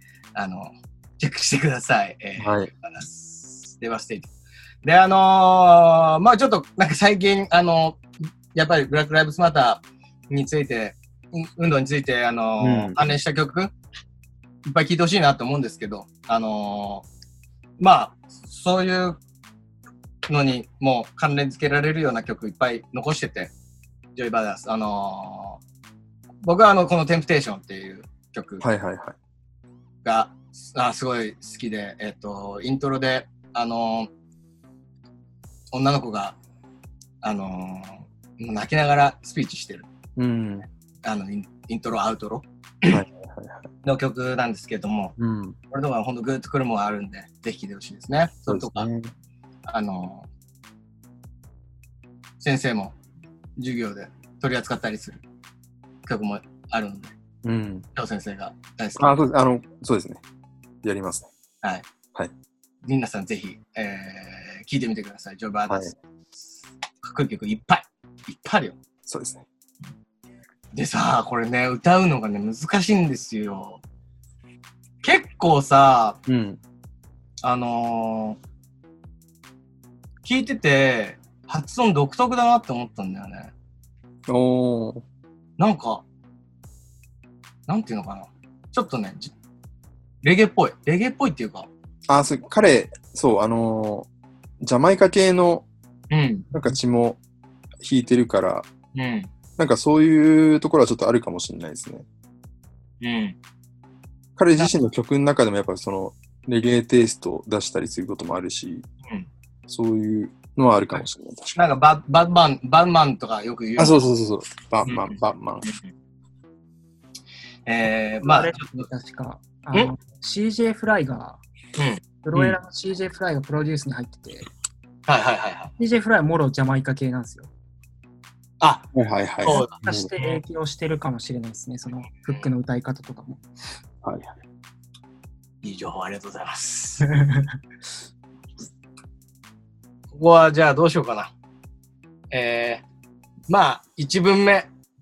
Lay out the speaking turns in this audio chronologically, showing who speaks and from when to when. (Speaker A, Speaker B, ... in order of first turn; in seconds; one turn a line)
Speaker A: 0.3-4.3
Speaker B: 2.4-2.7
Speaker A: 4.8-8.0
Speaker A: 8.5-13.7
Speaker B: 12.6-13.1
Speaker A: 14.7-17.1
Speaker A: 17.8-19.2
Speaker A: 20.3-23.5
Speaker A: 24.2-25.6
Speaker A: 26.4-28.6
Speaker B: 28.6-29.2
Speaker A: 30.0-34.1
Speaker A: 35.7-36.4
Speaker A: 37.2-39.9
Speaker B: 40.2-40.7
Speaker A: 41.0-43.0
Speaker B: 42.9-43.7
Speaker A: 43.8-45.1
Speaker B: 45.2-45.6
Speaker A: 45.7-48.9
Speaker B: 48.5-49.1
Speaker A: 49.7-50.3
Speaker A: 52.4-53.0
Speaker A: 53.6-55.2
Speaker A: 56.1-57.1
Speaker B: 57.4-57.9
Speaker A: 58.0-59.2
Speaker B: 59.0-60.2
Speaker B: 60.8-61.3
Speaker A: 62.9-66.0
Speaker B: 65.7-65.9
Speaker A: 67.0-68.8
Speaker B: 69.1-69.5
Speaker A: 70.7-73.8
Speaker A: 75.0-76.2
Speaker B: 76.3-76.6
Speaker A: 77.4-78.4
Speaker A: 80.2-83.5
Speaker B: 84.3-85.0
Speaker A: 85.6-86.0
Speaker A: 87.7-89.3
Speaker A: 90.2-91.7
Speaker B: 92.1-94.1
Speaker B: 94.6-95.7
Speaker A: 96.1-96.5
Speaker B: 96.5-97.2
Speaker B: 97.8-98.7
Speaker A: 99.0-99.3
Speaker B: 99.6-102.0
Speaker A: 103.0-103.4
Speaker B: 104.4-108.9
Speaker B: 109.7-111.5
Speaker A: 110.9-114.1
Speaker B: 113.8-115.7
Speaker A: 114.8-115.8
Speaker A: 117.7-118.8
Speaker C: 118.2-121.4
Speaker A: 121.8-122.0
Speaker C: 122.2-124.5
Speaker A: 125.1-125.7
Speaker C: 125.8-127.5
Speaker A: 128.6-128.9
Speaker B: 128.9-130.1
Speaker A: 129.4-130.4
Speaker C: 129.4-133.4
Speaker B: 134.0-134.3
Speaker A: 135.6-137.1
Speaker C: 137.0-137.5
Speaker A: 140.1-141.3
Speaker A: 142.3-142.8
Speaker A: 143.5-144.7